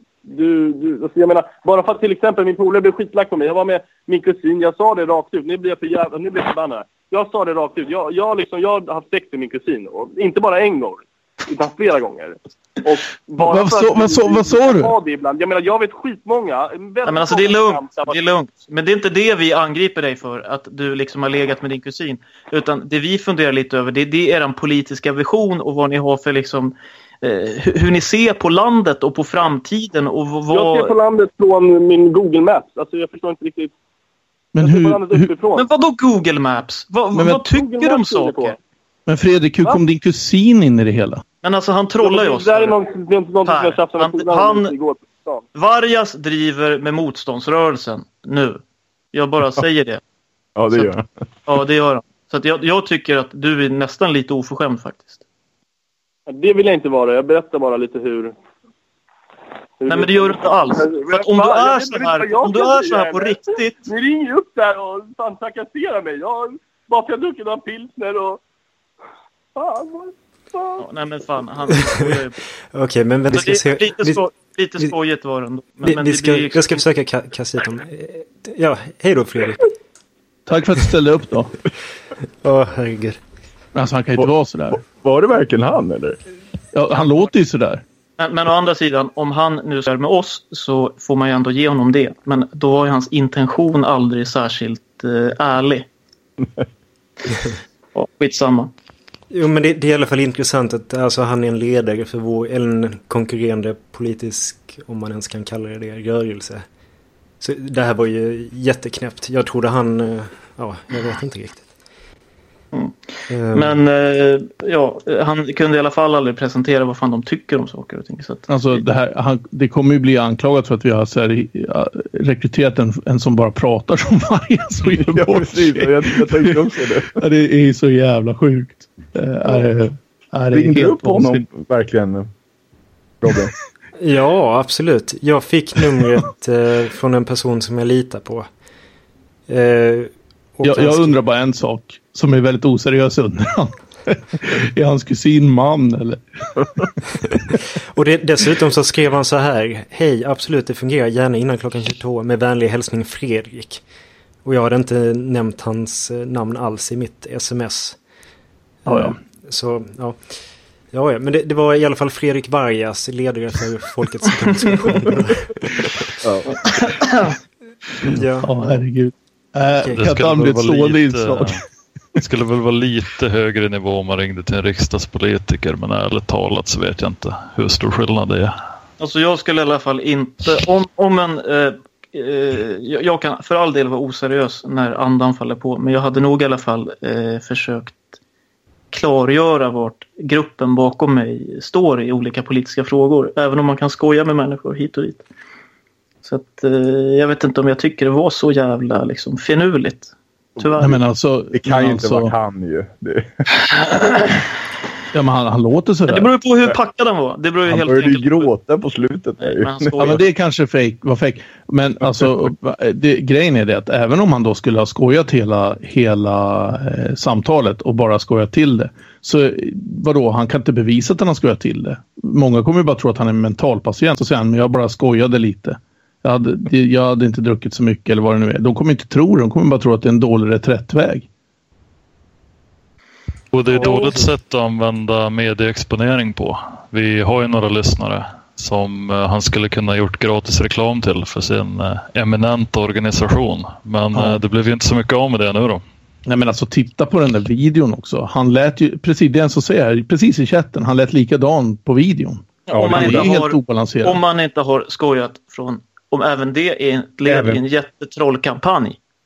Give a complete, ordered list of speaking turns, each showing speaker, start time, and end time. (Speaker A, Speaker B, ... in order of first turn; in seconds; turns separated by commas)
Speaker A: 0.2-18.2, Speaker B: 13.4-14.9, Speaker C: 17.1-30.9, Speaker A: 30.5-33.7, Speaker B: 34.5-35.3, Speaker A: 34.6-35.6, Speaker C: 35.5-38.6, Speaker B: 37.1-37.4, Speaker A: 37.6-38.6, Speaker B: 39.1-41.2, Speaker C: 41.4-42.7, Speaker A: 42.0-45.4, Speaker C: 43.4-44.7, Speaker C: 45.5-48.6, Speaker C: 49.1-50.0, Speaker D: 50.5-51.0, Speaker C: 51.5-55.2, Speaker A: 56.3-58.3, Speaker A: 59.8-68.4, Speaker C: 59.9-63.8, Speaker A: 69.5-70.8, Speaker C: 70.8-72.4, Speaker E: 72.7-74.2, Speaker C: 73.3-76.8, Speaker E: 75.8-79.7, Speaker B: 80.5-81.5, Speaker E: 82.4-83.2, Speaker B: 83.7-84.8, Speaker D: 84.8-86.2, Speaker B: 86.7-87.8, Speaker C: 88.2-95.9, Speaker C: 97.9-98.7, Speaker E: 99.3-106.6, Speaker E: 107.4-111.7, Speaker E: 113.3-113.8, Speaker C: 113.5-118.8, Speaker B: 118.5-125.9, Speaker D: 125.1-127.2, Speaker B: 127.2-131.4, Speaker D: 130.5-132.3, Speaker D: 133.2-133.5, Speaker E: 134.0-138.4, Speaker E: 139.5-141.2, Speaker B: 140.6-146.5, Speaker E: 147.9-153.8, Speaker E: 154.4-157.9, Speaker E: 158.9-160.2, Speaker B: 158.9-159.1, Speaker E: 160.9-165.6, Speaker D: 166.2-166.5, Speaker E: 168.1-168.6, Speaker B: 168.4-171.6, Speaker E: 169.8-170.3, Speaker F: 170.0-171.6, Speaker F: 172.1-178.5, Speaker C: 179.0-188.0, Speaker C: 188.9-195.2, Speaker C: 196.2-201.0, Speaker B: 200.8-202.3, Speaker D: 201.5-203.4, Speaker B: 205.1-206.3, Speaker C: 206.1-208.5, Speaker D: 207.7-210.1, Speaker C: 209.4-210.2, Speaker B: 210.0-231.3, Speaker F: 233.5-245.8, Speaker E: 233.8-234.2, Speaker B: 244.1-244.4, Speaker B: 246.2-254.2, Speaker C: 252.7-259.0, Speaker D: 252.7-253.3, Speaker D: 257.2-257.6